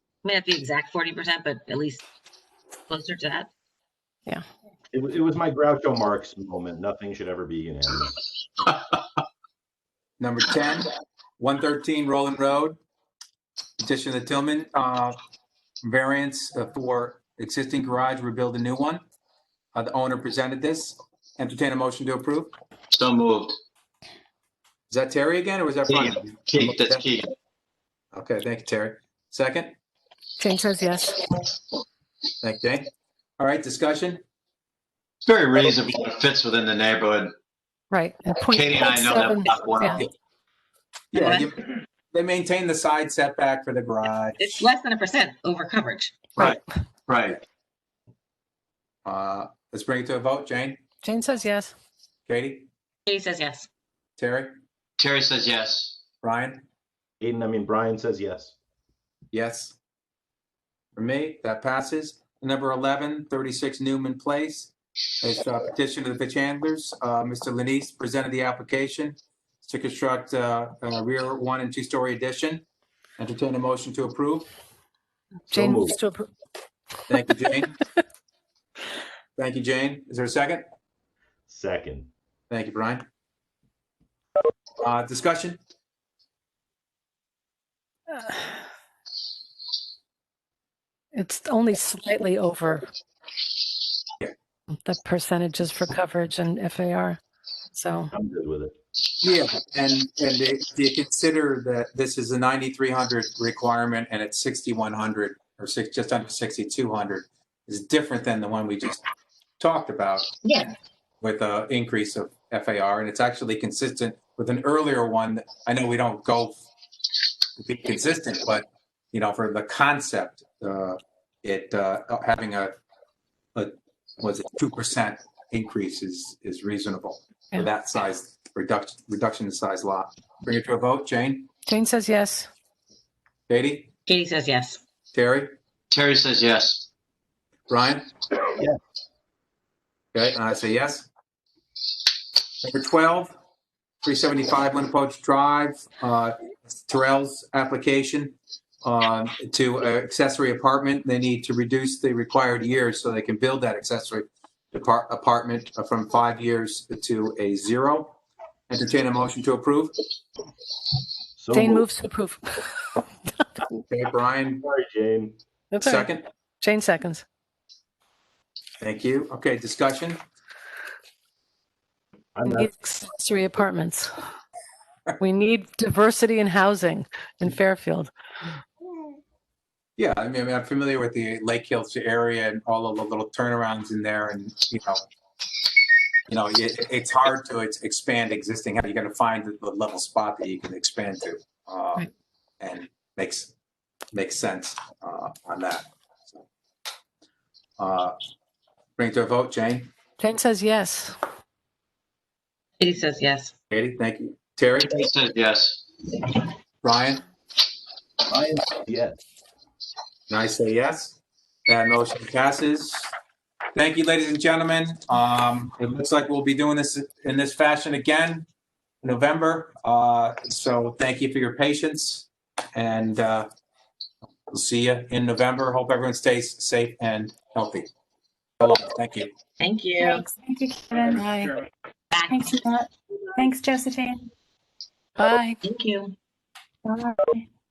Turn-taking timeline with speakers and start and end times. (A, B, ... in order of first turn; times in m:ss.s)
0:00.2-0:02.0 A
0:02.9-0:03.5 A
0:04.9-0:08.1 B
0:10.2-0:12.8 C
0:13.8-0:15.2 C
0:15.8-0:19.0 C
0:19.7-0:22.5 C
0:22.9-0:23.6 D
0:24.9-0:27.1 C
0:25.9-0:27.3 D
0:28.1-0:29.7 C
0:30.4-0:31.3 E
0:32.4-0:34.2 C
0:35.2-0:37.3 D
0:37.9-0:40.0 E
0:38.5-0:40.0 D
0:41.1-0:44.5 C
0:41.1-0:41.5 A
0:44.4-0:46.2 A
0:46.4-0:47.4 D
0:49.0-0:50.8 C
0:51.0-0:51.7 E
0:52.3-0:52.7 C
0:53.0-0:53.7 A
0:54.2-0:54.5 C
0:55.0-0:55.9 D
0:56.2-0:56.6 C
0:57.2-0:58.5 B
0:59.3-0:59.8 C
1:01.0-1:12.6 C
1:13.2-1:14.5 C
1:15.5-1:16.3 E
1:15.5-1:16.0 B
1:17.1-1:17.7 C
1:19.4-1:20.6 C
1:21.5-1:22.1 B
1:22.5-1:23.0 C
1:24.8-1:25.6 C
1:31.1-1:32.9 E
1:34.7-1:37.2 E
1:37.7-1:38.1 E
1:38.1-1:38.7 B
1:39.2-1:49.0 C
1:49.6-1:50.3 C
1:50.4-1:50.7 A
1:51.2-1:56.6 C
1:57.6-2:02.7 C
2:03.5-2:11.5 C
2:11.6-2:12.5 E
2:13.5-2:13.9 C
2:14.0-2:14.8 A
2:15.1-2:15.5 C
2:15.9-2:16.8 D
2:17.7-2:18.0 C
2:20.1-2:21.1 C
2:22.6-2:23.3 C
2:24.0-2:38.2 C
2:38.7-2:39.9 C
2:41.4-2:41.8 B
2:41.5-2:43.0 E
2:43.9-2:44.6 C
2:44.6-2:45.4 B
2:45.7-2:47.2 E
2:45.8-2:46.2 C
2:48.8-2:50.2 C
2:52.3-2:52.7 B
2:52.4-2:54.1 E
2:55.2-2:58.1 E
3:00.0-3:05.0 C
3:06.3-3:12.0 C
3:12.6-3:13.5 C
3:14.1-3:16.4 C
3:17.8-3:18.2 C
3:19.0-3:19.9 C
3:20.2-3:21.2 E
3:22.8-3:23.5 A
3:23.7-3:25.0 C
3:24.9-3:25.8 D
3:26.8-3:27.2 C
3:28.3-3:29.2 B
3:30.3-3:33.1 C
3:33.7-3:38.4 C
3:39.0-3:43.5 C
3:44.5-3:47.9 C
3:48.6-3:49.3 C
3:49.6-3:50.2 A
3:50.1-3:51.2 F
3:51.1-3:51.6 E
3:52.1-3:52.7 A
3:52.4-3:52.8 F
3:53.4-3:54.2 F
3:55.2-3:55.6 E
3:55.6-3:56.2 A
3:56.9-3:57.1 F